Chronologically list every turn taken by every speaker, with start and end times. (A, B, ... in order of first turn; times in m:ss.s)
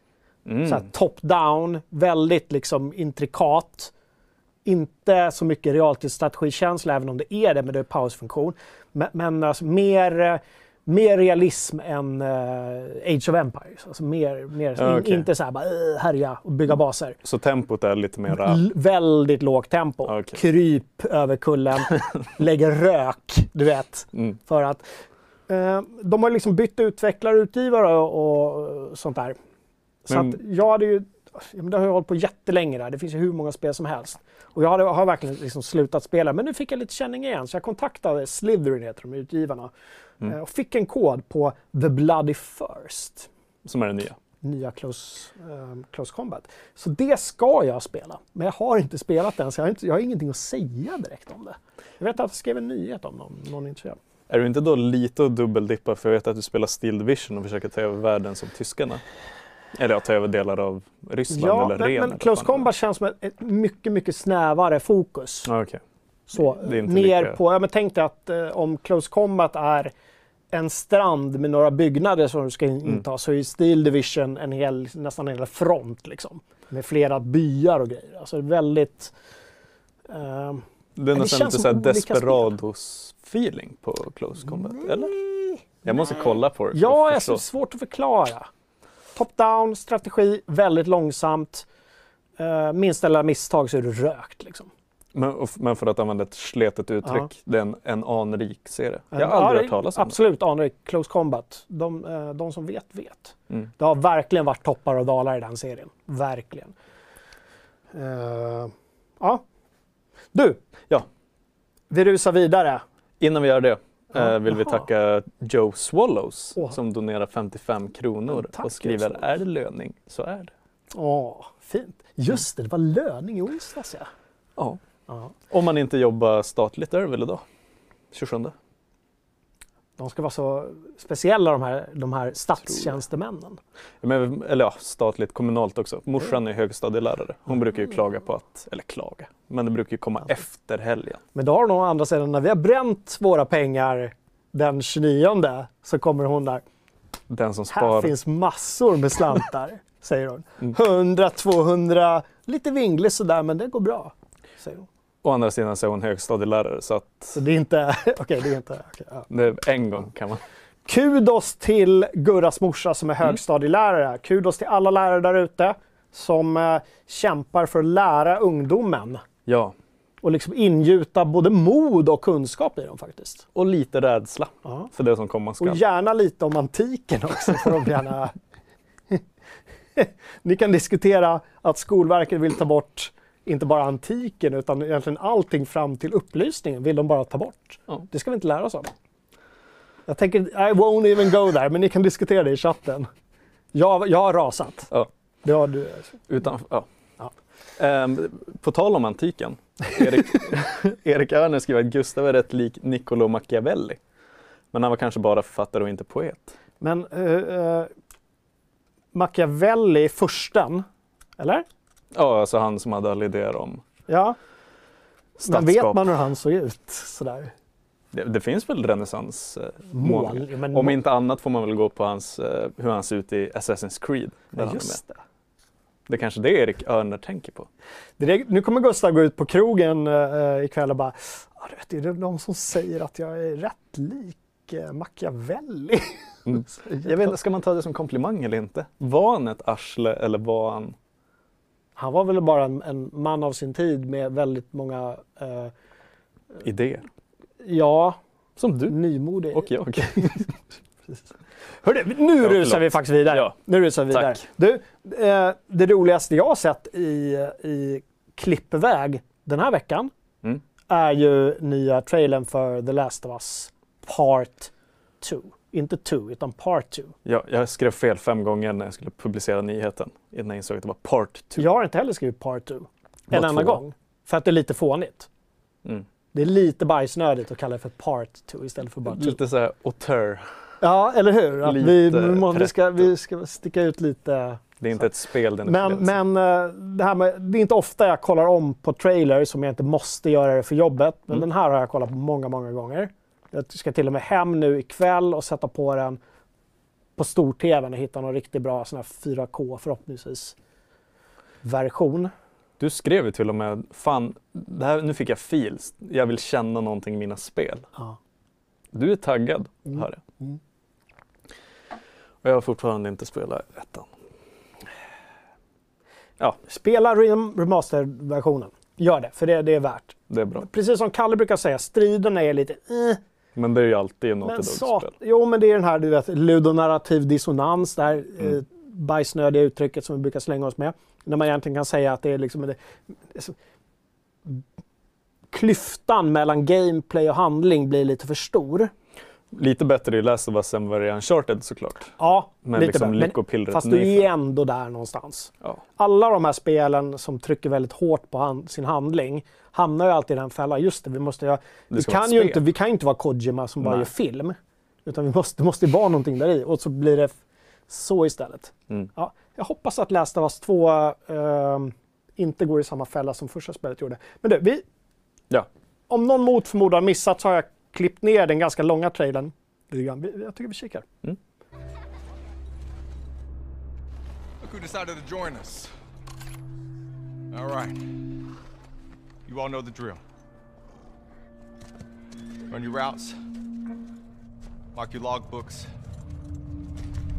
0:00.4-0:00.9 A
0:00.6-0:03.9 B
0:04.6-0:17.2 B
0:14.8-0:15.3 A
0:17.2-0:18.6 A
0:18.3-0:24.9 B
0:20.0-0:20.4 A
0:25.5-0:29.4 B
0:30.1-0:39.7 B
0:30.1-0:30.4 A
0:40.2-0:43.3 B
0:43.6-0:44.2 A
0:44.4-0:54.0 B
0:54.3-0:59.0 A
0:59.7-1:02.7 A
1:01.3-1:05.5 B
1:05.4-1:05.8 A
1:06.3-1:09.9 B
1:06.3-1:07.4 A
1:10.5-1:19.1 B
1:20.1-1:22.6 B
1:21.0-1:25.1 A
1:24.6-1:28.5 B
1:25.8-1:27.4 A
1:29.1-1:31.6 B
1:32.4-1:34.7 B
1:35.1-1:40.2 A
1:39.1-1:46.7 B
1:47.9-1:49.4 B
1:50.3-1:50.6 B
1:51.9-1:52.8 B
1:53.2-2:00.5 A
1:54.2-1:54.8 B
1:58.3-1:59.3 B
2:00.9-2:04.1 B
2:05.1-2:05.3 B
2:05.5-2:07.4 A
2:08.1-2:08.5 A
2:10.0-2:13.6 B
2:14.0-2:21.2 A
2:21.3-2:26.6 B
2:27.3-2:28.1 A
2:27.7-2:34.9 B
2:35.2-2:37.4 A
2:37.3-2:39.3 B
2:39.3-2:40.4 A
2:40.8-2:49.2 B
2:49.4-2:49.8 A
2:50.2-2:53.4 B
2:53.5-2:55.8 A
2:54.6-2:54.9 B
2:55.6-2:58.3 B
3:00.0-3:08.9 B
3:10.1-3:13.1 B
3:13.7-3:14.9 B
3:15.4-3:16.2 B
3:16.3-3:16.9 A
3:17.8-3:24.0 A
3:24.7-3:26.6 A
3:26.8-3:27.9 B
3:29.1-3:30.8 B
3:31.4-3:31.6 B
3:32.1-3:33.8 A
3:34.1-3:34.4 B
3:35.4-3:36.1 A
3:35.4-3:37.5 B
3:38.1-3:45.0 A
3:39.9-3:41.0 B
3:44.6-3:45.2 B
3:46.1-3:47.7 A
3:48.2-3:57.1 B
3:56.4-4:00.9 A
4:02.0-4:05.7 B
4:06.6-4:07.0 A
4:07.6-4:08.2 B
4:08.6-4:09.0 A
4:08.9-4:10.4 B
4:09.5-4:10.5 A
4:11.8-4:20.1 B
4:12.4-4:13.5 A
4:14.1-4:14.4 A
4:20.9-4:24.7 B
4:25.2-4:27.1 B
4:27.2-4:31.7 A
4:31.6-4:35.3 B
4:33.3-4:33.8 A
4:36.3-4:39.4 B
4:39.0-4:40.5 A
4:40.8-4:45.1 B
4:41.6-4:43.1 A
4:44.8-4:46.2 A
4:45.6-4:56.2 B
4:57.2-5:00.5 B
5:01.6-5:02.3 B
5:02.8-5:07.9 A
5:08.9-5:10.2 A
5:10.0-5:10.6 B
5:12.4-5:14.1 A
5:16.6-5:23.2 B
5:20.3-5:20.7 A
5:23.5-5:25.1 A
5:24.4-5:32.8 B
5:33.3-5:33.6 B
5:35.5-5:38.9 B
5:39.5-5:44.3 A
5:42.2-5:57.4 B
5:51.9-5:52.6 A
5:53.8-5:54.1 A
5:57.9-6:04.8 B
6:06.1-6:11.0 B
6:14.6-6:15.9 C
6:17.5-6:18.3 C
6:19.4-6:20.2 C
6:22.7-6:23.4 C
6:24.9-6:25.9 C